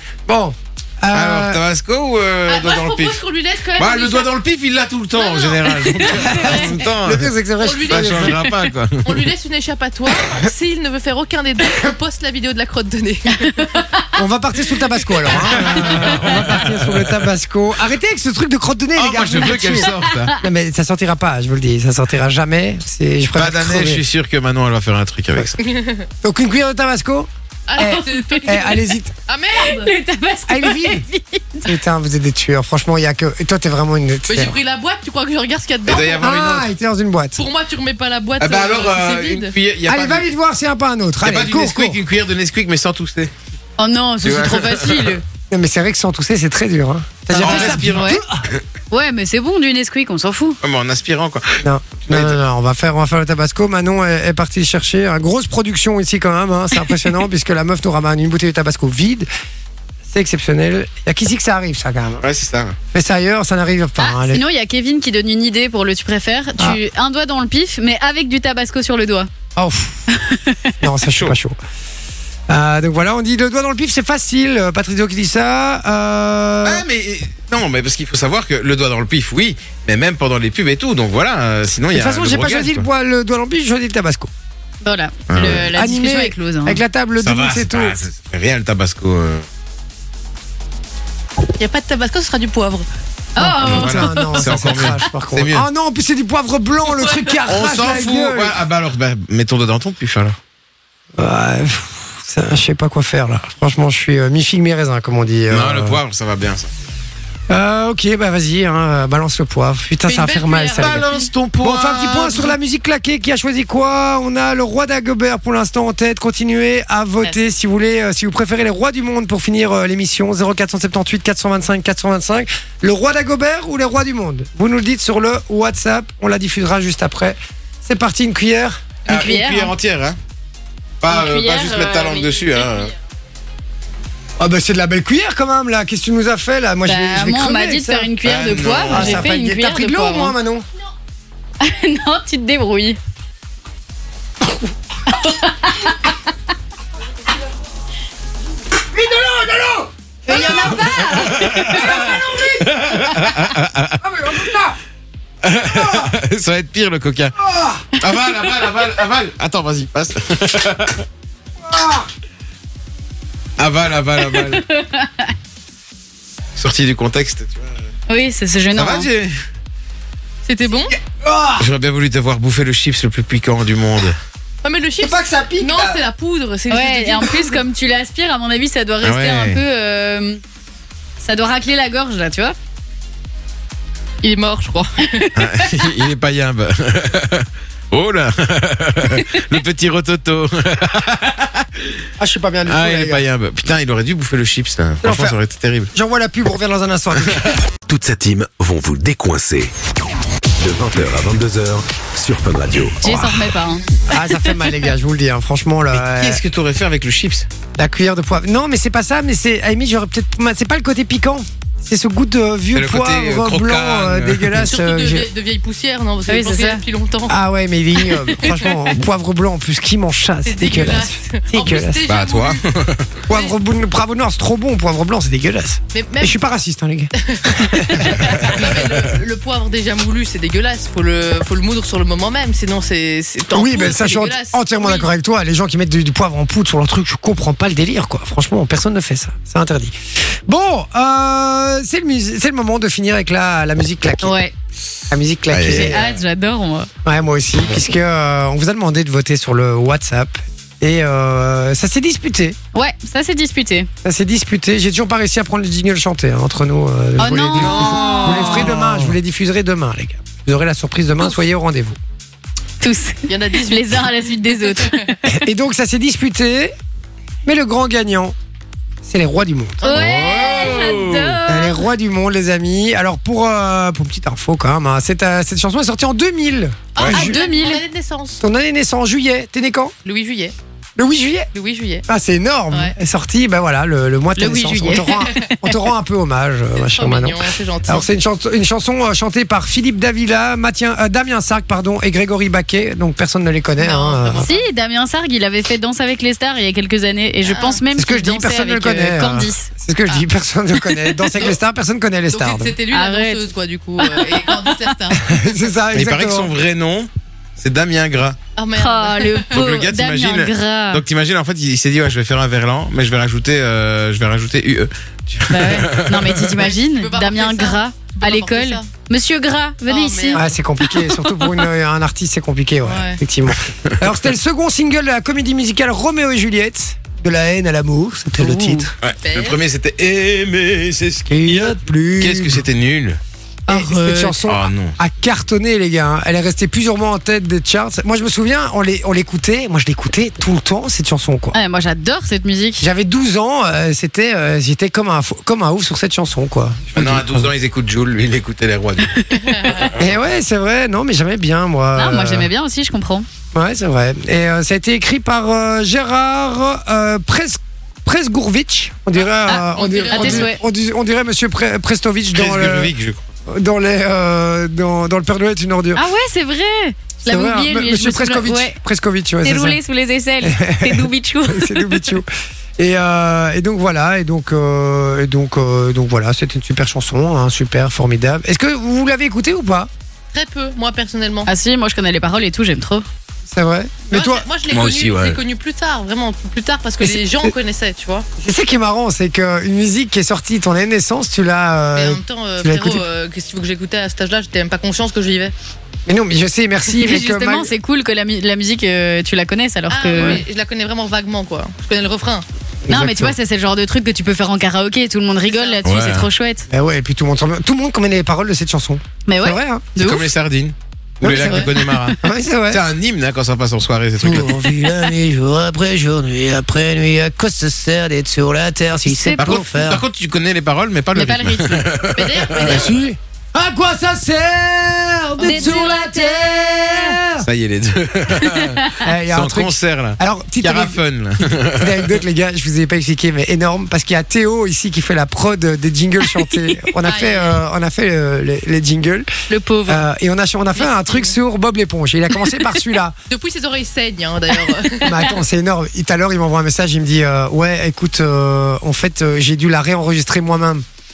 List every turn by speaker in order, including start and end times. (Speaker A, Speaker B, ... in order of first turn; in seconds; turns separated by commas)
Speaker A: 0.3-1.6, Speaker B: 1.1-3.2, Speaker C: 2.5-4.3, Speaker B: 3.8-7.3, Speaker C: 5.2-6.1, Speaker D: 5.8-6.7, Speaker A: 6.2-8.4, Speaker C: 7.6-8.4, Speaker B: 7.9-9.3, Speaker C: 9.0-13.7, Speaker D: 13.4-13.8, Speaker A: 14.2-24.0, Speaker B: 15.6-17.2, Speaker D: 15.7-16.3, Speaker B: 18.9-20.4, Speaker D: 19.4-20.4, Speaker B: 23.3-25.6, Speaker C: 25.6-26.1, Speaker A: 26.2-29.1, Speaker C: 27.7-29.9, Speaker D: 27.8-28.9, Speaker D: 29.6-31.7, Speaker A: 30.5-31.1, Speaker A: 31.6-34.5, Speaker C: 34.3-36.3, Speaker B: 35.9-36.7, Speaker A: 35.9-37.5, Speaker C: 37.4-39.5, Speaker B: 38.4-40.3, Speaker A: 39.9-42.0, Speaker B: 41.2-43.3, Speaker D: 43.8-45.2, Speaker B: 44.2-45.2, Speaker A: 45.5-48.5, Speaker D: 47.3-48.2, Speaker B: 47.4-48.6, Speaker D: 48.9-50.6, Speaker B: 50.6-52.4, Speaker A: 51.6-59.3, Speaker A: 60.1-62.2, Speaker B: 62.2-62.8, Speaker A: 62.9-64.4, Speaker D: 64.0-69.3, Speaker A: 69.5-70.1, Speaker D: 70.1-70.7, Speaker A: 70.8-71.6, Speaker B: 71.1-71.4, Speaker A: 72.5-76.8, Speaker B: 76.6-82.8, Speaker A: 81.9-84.3, Speaker D: 84.8-86.8, Speaker B: 85.3-85.7, Speaker A: 85.4-88.0, Speaker B: 87.2-89.4, Speaker C: 91.5-92.9, Speaker D: 93.3-94.9, Speaker A: 93.4-98.6, Speaker B: 93.6-95.7, Speaker C: 96.9-97.4, Speaker B: 97.5-100.3, Speaker A: 101.2-106.0, Speaker B: 105.5-106.7, Speaker A: 107.5-111.1, Speaker C: 110.0-111.3, Speaker B: 110.7-112.5, Speaker A: 111.6-129.0, Speaker D: 129.1-129.7, Speaker B: 129.1-130.2, Speaker B: 131.0-132.9, Speaker D: 131.1-132.9, Speaker A: 134.4-138.1, Speaker D: 136.8-140.3, Speaker B: 138.2-139.2, Speaker A: 138.8-140.7, Speaker D: 141.6-143.0, Speaker D: 145.1-146.1, Speaker A: 148.7-153.4, Speaker D: 150.3-152.1, Speaker B: 150.6-154.0, Speaker A: 154.0-154.8, Speaker B: 155.4-157.3, Speaker A: 155.6-156.1, Speaker A: 157.4-157.9, Speaker B: 157.9-161.0, Speaker A: 161.6-162.1, Speaker B: 163.6-164.6, Speaker D: 164.2-165.3, Speaker B: 166.6-167.8, Speaker D: 168.1-169.1, Speaker B: 168.7-169.3, Speaker C: 170.4-170.9, Speaker A: 170.9-171.7, Speaker B: 171.6-174.2, Speaker C: 174.6-177.6, Speaker A: 175.0-176.0, Speaker D: 176.7-180.4, Speaker B: 179.0-179.6, Speaker D: 181.2-182.5, Speaker C: 184.2-185.3, Speaker D: 185.1-185.9, Speaker B: 185.3-191.9, Speaker D: 189.1-189.4, Speaker A: 192.2-193.2, Speaker B: 192.7-195.9, Speaker A: 195.0-195.4, Speaker A: 195.9-197.4, Speaker B: 197.3-197.6, Speaker E: 197.8-199.7, Speaker E: 200.6-203.0, Speaker D: 203.0-203.9, Speaker B: 203.0-203.4, Speaker A: 204.1-206.4, Speaker B: 205.9-207.5, Speaker A: 207.8-215.3, Speaker B: 212.7-214.7, Speaker C: 214.7-217.4, Speaker D: 216.3-216.8, Speaker A: 217.3-222.0, Speaker D: 218.3-218.7, Speaker C: 220.4-222.7, Speaker B: 222.1-223.2, Speaker A: 223.3-228.6, Speaker C: 223.3-223.5, Speaker C: 225.9-226.5, Speaker C: 227.1-235.1, Speaker A: 233.5-244.4, Speaker D: 244.2-244.5, Speaker A: 245.1-246.0, Speaker B: 245.5-246.0, Speaker D: 245.6-246.9, Speaker A: 247.0-252.6, Speaker D: 252.7-253.9, Speaker A: 254.0-262.0, Speaker D: 257.2-258.7, Speaker C: 257.6-258.8, Speaker B: 258.8-259.1, Speaker D: 262.8-265.3, Speaker C: 263.3-265.1, Speaker A: 265.3-266.7, Speaker A: 267.4-268.3, Speaker A: 269.0-269.8, Speaker C: 269.8-270.8, Speaker D: 269.8-271.9, Speaker B: 269.9-271.4, Speaker A: 271.4-277.3, Speaker C: 276.9-278.4, Speaker D: 277.1-277.8, Speaker A: 278.4-279.9, Speaker C: 280.0-280.5, Speaker A: 281.0-281.5, Speaker C: 281.5-282.1, Speaker A: 282.1-294.5, Speaker C: 282.7-282.9, Speaker D: 284.4-285.7, Speaker C: 286.8-288.1, Speaker C: 293.8-294.7, Speaker D: 294.4-299.7, Speaker C: 297.4-297.8, Speaker A: 297.9-302.8, Speaker C: 302.3-305.7, Speaker D: 302.9-303.5, Speaker D: 304.0-304.9, Speaker A: 305.2-306.5, Speaker B: 305.9-308.4, Speaker C: 308.6-309.5, Speaker D: 308.7-311.0, Speaker B: 309.5-316.6, Speaker D: 315.5-321.3, Speaker C: 316.6-318.9, Speaker C: 319.9-320.5, Speaker A: 320.3-328.9, Speaker C: 322.8-323.2, Speaker D: 328.4-328.9, Speaker B: 329.0-333.2, Speaker C: 329.2-329.6, Speaker A: 331.3-332.6, Speaker D: 333.7-334.3, Speaker A: 333.7-341.6, Speaker B: 334.5-334.9, Speaker D: 341.5-342.8, Speaker A: 342.8-347.5, Speaker B: 346.9-350.2, Speaker D: 349.1-349.9, Speaker C: 349.5-349.8, Speaker A: 349.9-352.5, Speaker D: 351.9-353.3, Speaker A: 353.5-362.9, Speaker C: 359.1-360.6, Speaker D: 360.1-360.6, Speaker B: 362.3-363.2, Speaker A: 363.4-366.0, Speaker D: 365.9-368.8, Speaker A: 367.2-369.8, Speaker D: 369.4-372.1, Speaker A: 370.4-379.9, Speaker C: 380.3-381.5, Speaker D: 381.4-383.1, Speaker A: 383.5-384.4, Speaker C: 384.1-388.3, Speaker B: 384.7-385.4, Speaker A: 387.0-387.5, Speaker A: 388.4-393.0, Speaker C: 391.9-395.5, Speaker A: 396.1-397.7, Speaker D: 397.0-400.4, Speaker C: 399.9-402.4, Speaker A: 402.9-403.4, Speaker D: 402.9-406.7, Speaker C: 405.4-405.8, Speaker B: 405.8-406.3, Speaker A: 406.7-409.9, Speaker D: 409.3-410.3, Speaker B: 410.0-414.7, Speaker A: 411.2-412.8, Speaker C: 411.3-411.7, Speaker A: 414.2-420.1, Speaker D: 419.0-419.6, Speaker B: 419.4-422.9, Speaker D: 421.1-421.9, Speaker C: 422.1-423.0, Speaker A: 422.5-427.5, Speaker C: 425.4-426.0, Speaker D: 425.4-427.2, Speaker B: 427.4-432.2, Speaker D: 428.4-429.0, Speaker A: 429.0-431.0, Speaker A: 431.7-439.3, Speaker D: 436.3-436.9, Speaker C: 437.0-437.6, Speaker D: 439.5-439.9, Speaker A: 439.9-443.1, Speaker C: 440.7-441.4, Speaker C: 443.3-445.3, Speaker A: 445.0-450.8